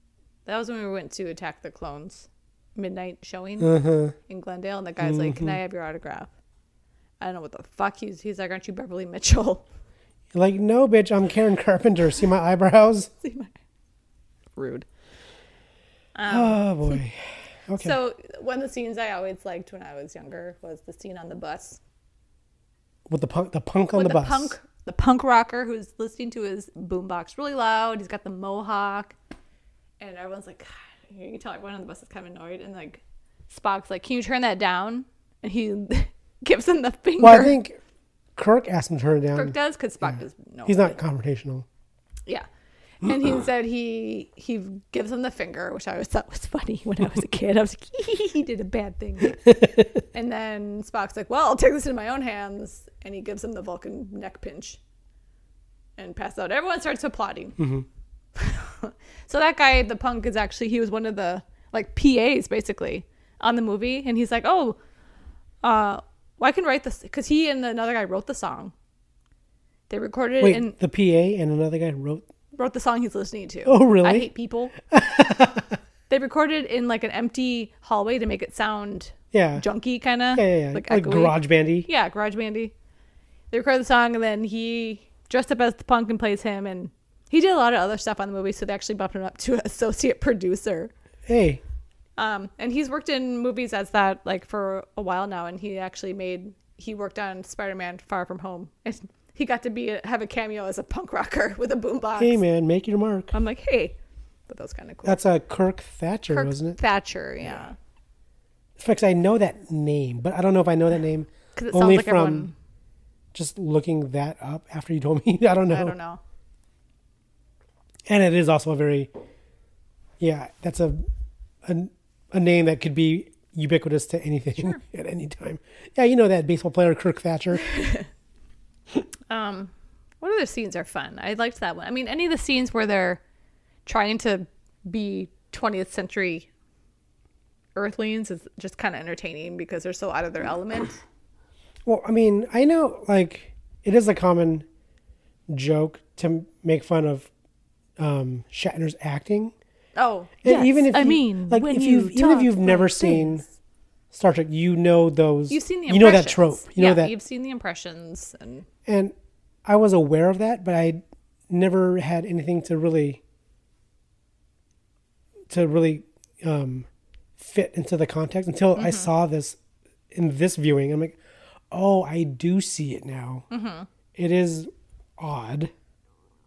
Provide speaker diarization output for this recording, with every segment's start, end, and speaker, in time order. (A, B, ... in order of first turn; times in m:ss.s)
0:00.5-0:03.8 A
0:03.6-0:04.2 B
0:04.3-0:06.3 A
0:05.0-0:05.6 B
0:07.2-0:09.7 A
0:10.3-0:13.1 B
0:13.2-0:13.5 A
0:14.6-0:14.9 A
0:16.2-0:17.0 A
0:16.3-0:18.0 B
0:17.8-0:21.8 A
0:23.1-0:24.6 B
0:23.9-0:29.2 A
0:30.0-0:37.6 A
0:37.2-0:37.8 B
0:38.4-0:41.7 B
0:39.4-0:41.0 A
0:43.0-0:54.8 A
0:56.0-0:57.6 A
0:57.6-0:57.9 B
0:58.4-1:04.8 A
1:05.6-1:08.7 A
1:09.9-1:10.8 A
1:10.4-1:12.3 B
1:12.5-1:14.7 A
1:13.7-1:14.3 B
1:14.9-1:15.8 B
1:16.1-1:22.7 A
1:19.3-1:19.7 B
1:20.3-1:21.9 B
1:23.5-1:30.9 A
1:31.3-1:31.6 B
1:32.2-1:42.4 A
1:42.2-1:43.4 B
1:43.3-1:44.0 A
1:44.5-1:45.2 A
1:45.0-1:46.8 B
1:46.3-1:47.8 A
1:48.8-1:52.5 B
1:51.6-1:52.6 A
1:53.3-1:56.0 B
1:55.7-1:56.2 A
1:58.1-1:59.1 B
2:00.2-2:01.0 B
2:01.6-2:07.7 B
2:07.7-2:08.1 A
2:09.3-2:13.2 A
2:13.9-2:16.5 A
2:17.8-2:21.0 A
2:21.8-2:24.7 B
2:25.5-2:27.3 B
2:28.0-2:29.5 B
2:30.0-2:33.5 A
2:30.4-2:33.4 B
2:34.1-2:37.2 B
2:35.5-2:38.7 A
2:38.9-2:39.1 B
2:39.6-2:43.2 B
2:45.5-2:46.9 B
2:47.4-2:49.6 B
2:48.8-2:49.1 A
2:50.1-2:51.2 B
2:51.7-2:53.5 B
2:53.5-2:53.9 A
2:54.2-2:55.7 B